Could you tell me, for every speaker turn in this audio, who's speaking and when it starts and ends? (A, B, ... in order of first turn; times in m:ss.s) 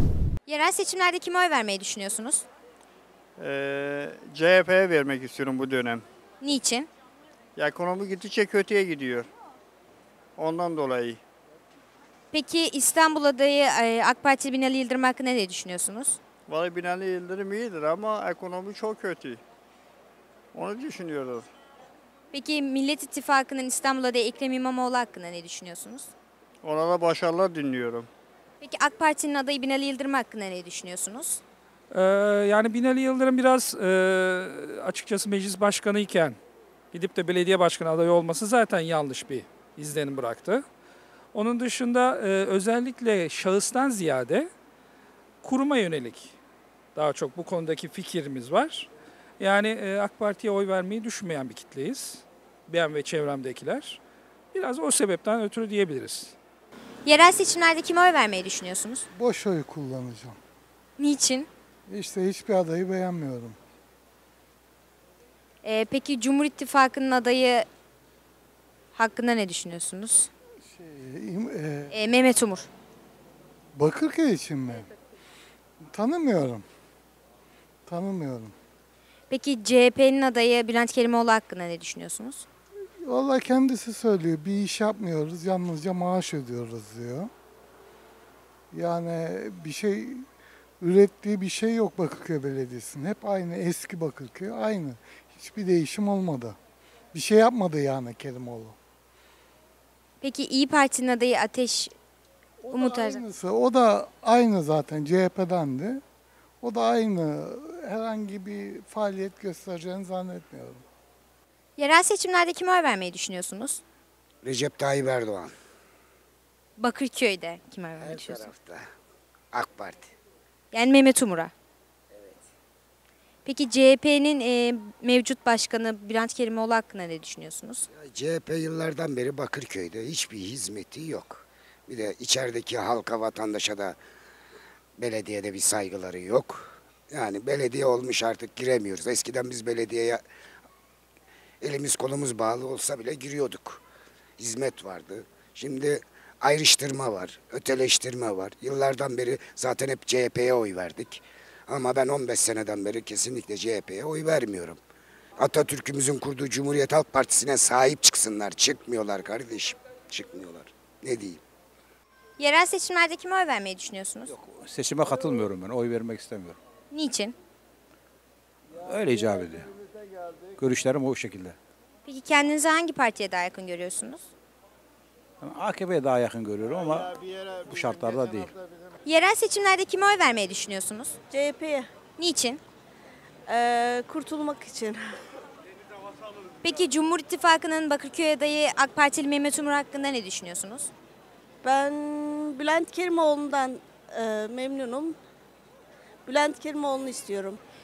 0:00.5-0:02.4 A
0:03.4-0:06.0 B
0:06.4-0:06.9 A
0:07.6-0:09.3 B
0:10.4-0:11.2 B
0:12.3-0:16.2 A
0:16.5-0:19.4 B
0:20.5-0:21.4 B
0:22.3-0:26.1 A
0:26.6-0:28.1 B
0:28.6-0:31.4 A
0:31.9-0:36.4 C
0:36.9-0:40.6 C
0:41.3-0:44.5 C
0:45.4-0:46.3 C
0:46.9-0:48.9 C
0:49.4-0:54.0 C
0:54.5-0:56.3 C
0:57.0-0:59.0 A
0:59.1-1:00.4 D
1:01.0-1:01.5 A
1:01.9-1:03.6 D
1:05.6-1:07.6 A
1:08.9-1:10.3 A
1:10.8-1:11.9 D
1:11.9-1:12.7 A
1:13.8-1:14.9 D
1:15.9-1:16.6 D
1:17.9-1:18.5 D
1:19.3-1:22.4 A
1:23.0-1:27.3 D
1:28.7-1:30.2 D
1:30.8-1:36.6 D
1:37.1-1:38.8 D
1:40.2-1:41.9 A
1:42.6-1:46.0 D
1:42.7-1:43.2 A
1:46.6-1:50.8 D
1:51.8-1:53.8 A
1:54.4-1:55.5 E
1:56.8-1:58.5 A
1:58.0-1:58.9 E
1:59.5-2:00.1 E
2:00.7-2:01.5 A
2:03.4-2:07.8 A
2:07.9-2:14.0 E
2:15.0-2:20.2 E
2:21.6-2:23.8 E
2:24.4-2:34.8 E
2:35.4-2:41.4 E
2:42.4-2:44.3 A
2:44.3-2:46.6 F
2:46.9-2:47.3 A
2:48.8-2:49.6 F
2:50.6-2:51.6 F
2:52.0-2:54.3 A
2:55.4-2:57.1 F
2:57.6-2:58.5 F
2:59.0-3:01.2 A
3:02.2-3:02.6 A
3:03.5-3:04.8 G
3:06.6-3:10.9 A
3:11.6-3:15.1 G
3:16.3-3:17.6 G